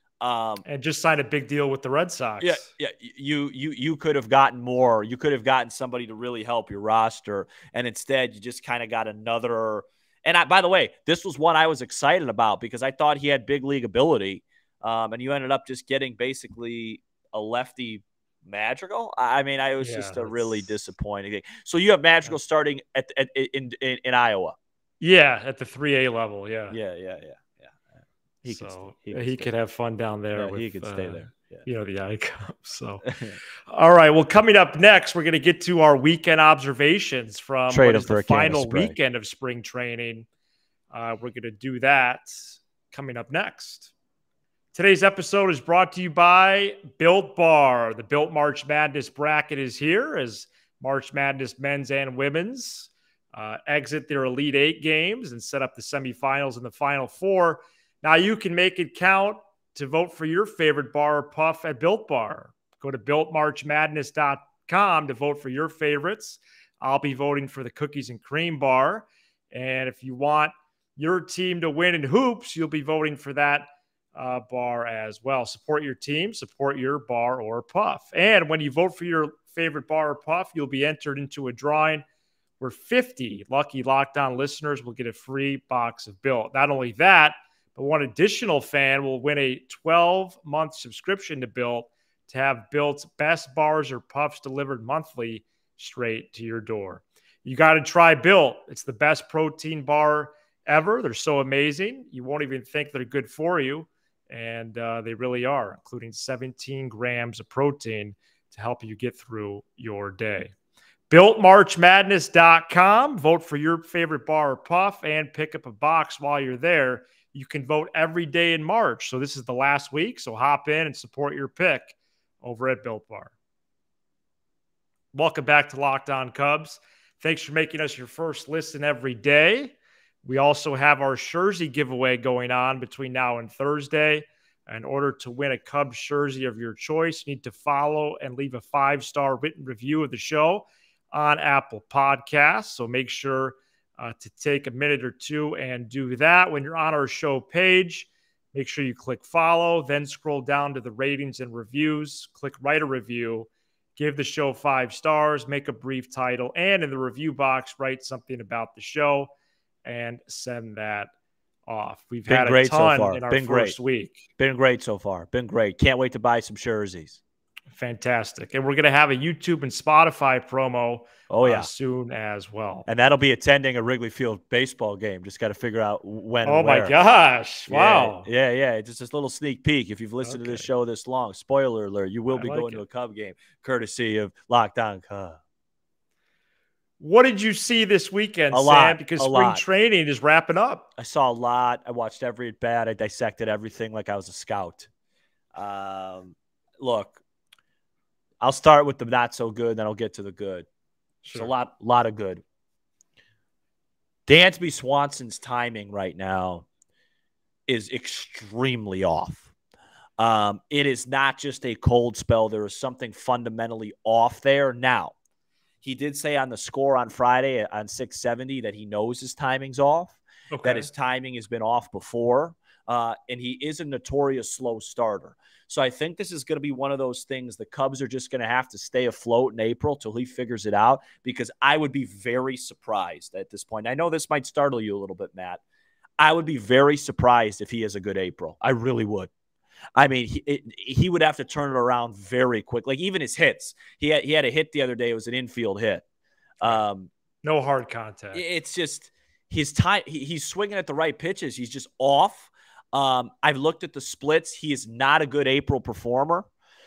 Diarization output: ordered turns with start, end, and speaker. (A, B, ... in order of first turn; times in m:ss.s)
0:00.2-0:00.6 A
0:00.6-0:02.7 B
0:02.4-0:24.6 A
0:19.8-0:20.7 B
0:25.0-0:26.8 B
0:26.7-0:27.9 A
0:28.4-0:29.5 A
0:28.4-0:33.0 B
0:30.3-0:31.7 A
0:33.0-0:33.4 A
0:33.7-0:40.3 B
0:37.7-0:39.0 A
0:40.9-0:43.9 B
0:44.7-1:22.0 B
1:22.6-1:50.5 B
1:51.1-2:03.3 B
2:05.1-2:39.3 B
2:39.8-2:41.1 B
2:41.7-2:44.3 B
2:42.3-2:43.8 A
2:44.4-2:47.2 A
2:47.7-2:52.8 B
2:51.3-2:51.7 A
2:52.9-2:56.9 A
2:56.4-2:58.3 B
2:57.7-3:05.4 A
3:00.2-3:00.7 B
3:02.3-3:02.8 B
3:07.0-3:10.9 B
3:08.5-3:09.6 A
3:11.0-3:14.9 A
3:15.6-3:17.2 A
3:18.4-3:20.7 A
3:21.2-3:21.5 B
3:21.3-3:22.4 A
3:24.3-3:26.7 A
3:27.7-3:29.5 A
3:30.2-3:35.2 A
3:35.8-3:55.6 A
3:40.5-3:40.9 B
3:56.2-3:59.3 A
4:00.0-4:06.0 A
4:06.6-4:07.1 A
4:07.4-4:08.4 B
4:08.3-4:16.5 A